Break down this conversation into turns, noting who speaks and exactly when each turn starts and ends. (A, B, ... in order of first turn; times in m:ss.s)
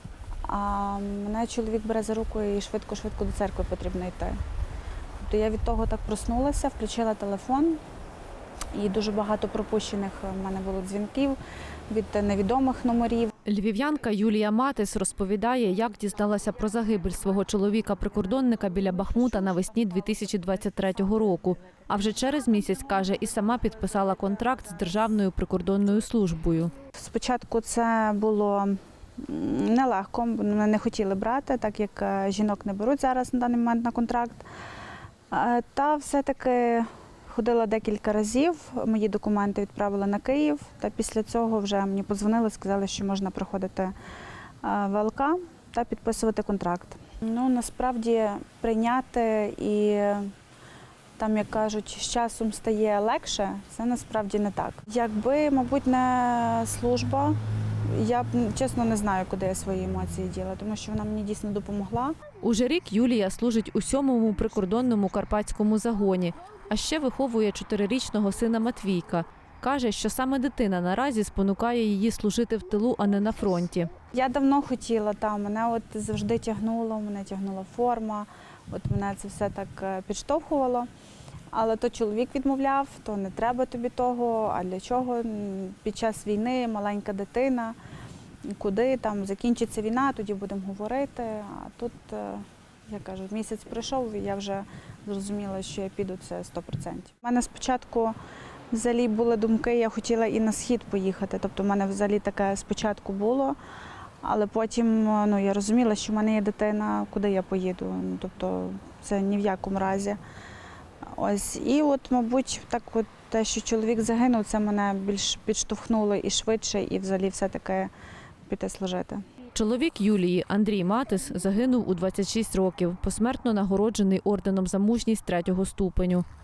0:00.4-0:04.4 A
0:05.2-0:07.8 A
0:08.7-0:11.4 A
0:11.9-0:13.3 A
0:13.4-0:26.7 B
0:27.0-0:34.4 A
0:35.3-0:43.9 A
0:44.6-0:50.3 A
0:51.2-1:02.2 A
1:02.4-1:13.9 B
1:14.1-1:20.9 A
1:21.5-1:27.8 A
1:28.6-1:38.2 A
1:38.7-1:43.6 A
1:44.2-1:50.2 A
1:51.2-1:57.9 A
1:58.5-1:59.2 A
1:59.5-2:06.2 B